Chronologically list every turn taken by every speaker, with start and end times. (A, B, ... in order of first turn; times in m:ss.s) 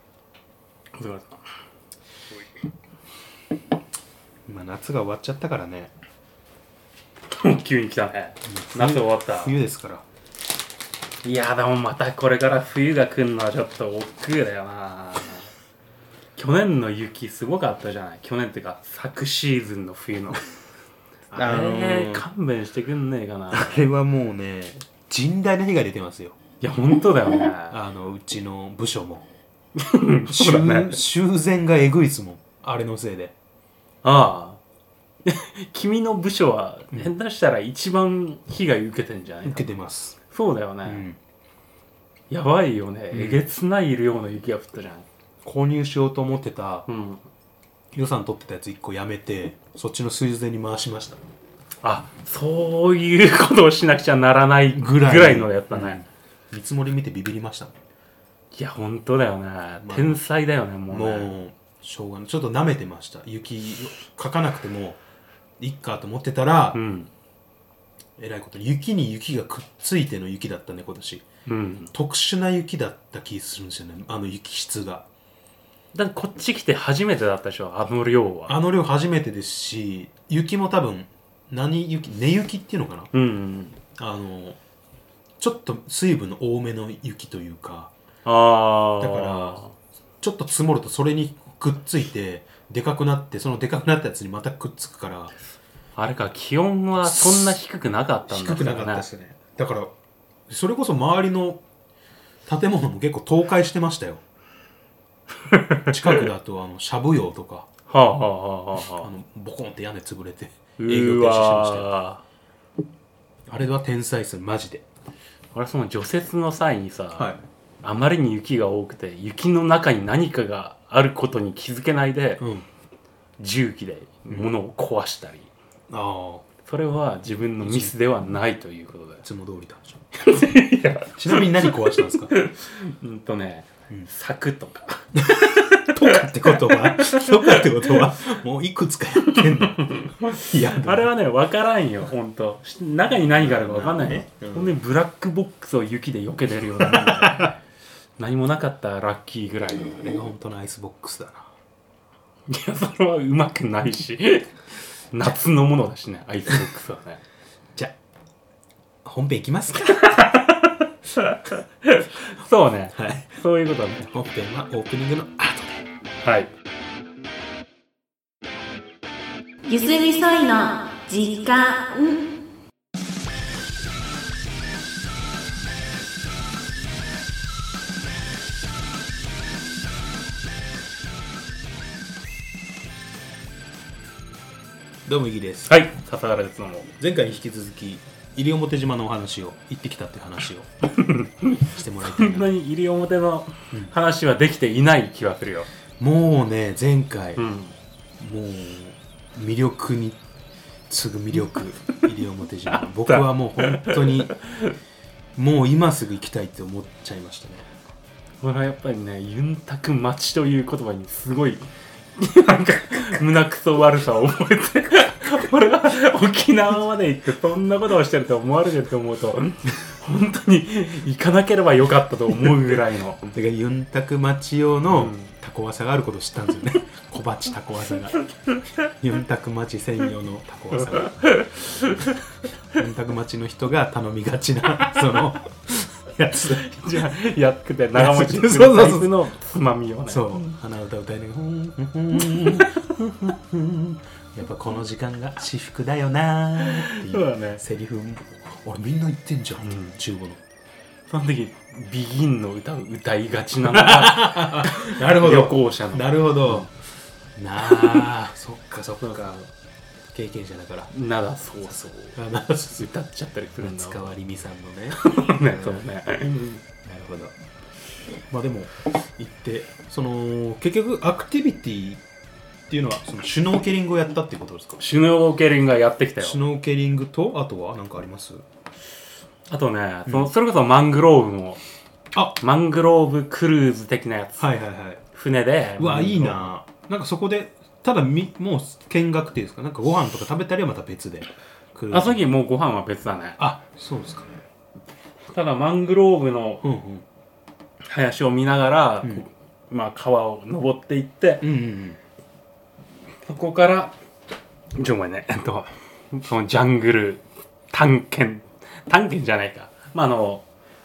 0:00.9-0:01.4 A
0:04.5-0:05.9 B
0:07.3-0:09.5 A
0:08.5-0:10.0 B
0:11.2-0:15.5 A
0:16.4-0:20.4 A
0:21.3-0:23.9 A
0:21.3-0:22.2 B
0:23.5-0:26.4 B
0:26.6-0:27.8 A
0:27.7-0:29.2 B
0:29.8-0:31.0 A
0:30.2-0:33.3 B
0:34.0-0:34.6 A
0:35.2-0:39.7 A
0:39.4-0:40.2 B
0:40.2-0:41.0 A
0:40.8-0:41.2 B
0:42.3-0:45.0 A
0:43.1-0:43.4 B
0:45.4-0:46.9 B
0:46.9-0:47.2 A
0:47.9-0:51.2 B
0:51.8-0:56.0 A
0:54.7-0:57.7 B
0:58.5-1:01.3 A
0:59.8-1:00.2 B
1:00.9-1:05.0 B
1:05.6-1:06.8 B
1:06.7-1:07.1 A
1:08.2-1:11.2 B
1:11.4-1:11.9 A
1:11.9-1:15.0 B
1:15.9-1:18.6 A
1:18.5-1:23.1 B
1:23.1-1:23.8 A
1:24.0-1:24.6 B
1:25.4-1:27.9 B
1:28.2-1:29.7 A
1:29.0-1:29.7 B
1:30.2-1:35.3 B
1:36.0-1:39.0 A
1:37.0-1:37.6 B
1:38.3-1:39.9 B
1:40.5-1:41.6 B
1:42.5-1:44.2 B
1:45.5-1:46.3 A
1:45.9-1:47.7 B
1:47.9-1:49.1 A
1:48.9-1:51.9 B
1:50.8-1:52.2 A
1:53.5-1:54.8 B
1:55.5-1:57.3 A
1:57.1-1:57.4 B
1:57.8-2:02.4 A
2:02.4-2:02.6 B
2:03.4-2:05.5 A
2:05.9-2:06.4 B
2:06.6-2:09.2 A
2:07.6-2:07.9 B
2:09.2-2:10.0 B
2:10.1-2:17.7 A
2:11.1-2:12.4 B
2:15.1-2:21.1 B
2:19.3-2:27.5 A
2:23.4-2:24.8 B
2:26.8-2:27.5 B
2:28.2-2:30.0 A
2:30.0-2:31.5 B
2:32.5-2:34.5 A
2:35.1-2:37.2 A
2:39.0-2:40.0 B
2:39.8-2:44.0 A
2:42.9-2:43.3 B
2:44.0-2:45.8 B
2:46.2-2:46.5 A
2:49.6-2:52.4 C
3:05.1-3:05.8 B
3:05.7-3:06.9 A
3:07.0-3:10.7 B
3:10.8-3:15.7 A
3:11.6-3:12.5 B
3:16.0-3:17.4 B
3:17.4-3:17.7 A
3:18.2-3:20.2 B
3:20.9-3:24.4 B
3:23.0-3:24.7 A
3:25.4-3:27.7 B
3:28.4-3:43.3 A
3:43.3-3:48.3 B
3:44.9-3:45.3 A
3:48.8-3:51.9 B
3:52.7-3:56.8 B
3:56.4-4:00.5 A
3:57.9-3:59.2 B
4:00.1-4:10.4 B
4:02.2-4:02.7 A
4:06.6-4:07.6 A
4:09.6-4:09.9 A
4:11.1-4:16.7 A
4:13.6-4:16.7 B
4:17.4-4:19.5 B
4:17.6-4:18.1 A
4:19.0-4:19.4 A
4:20.1-4:20.9 B
4:20.9-4:22.2 A
4:22.1-4:22.9 B
4:22.7-4:24.0 A
4:23.6-4:25.8 B
4:25.0-4:26.4 A
4:26.7-4:27.3 B
4:28.3-4:32.0 B
4:32.7-4:34.8 B
4:34.8-4:36.4 A
4:36.2-4:38.4 B
4:39.5-4:41.6 A
4:40.0-4:40.3 B
4:42.4-4:44.5 A
4:44.4-4:45.0 B
4:45.1-4:46.5 A
4:45.8-4:52.2 B
4:51.9-4:53.4 A
4:53.4-4:54.4 B
4:55.3-4:56.6 A
4:56.6-4:57.0 B
4:57.8-5:01.4 A
5:01.4-5:02.0 B
5:03.2-5:03.9 A
5:04.7-5:10.4 A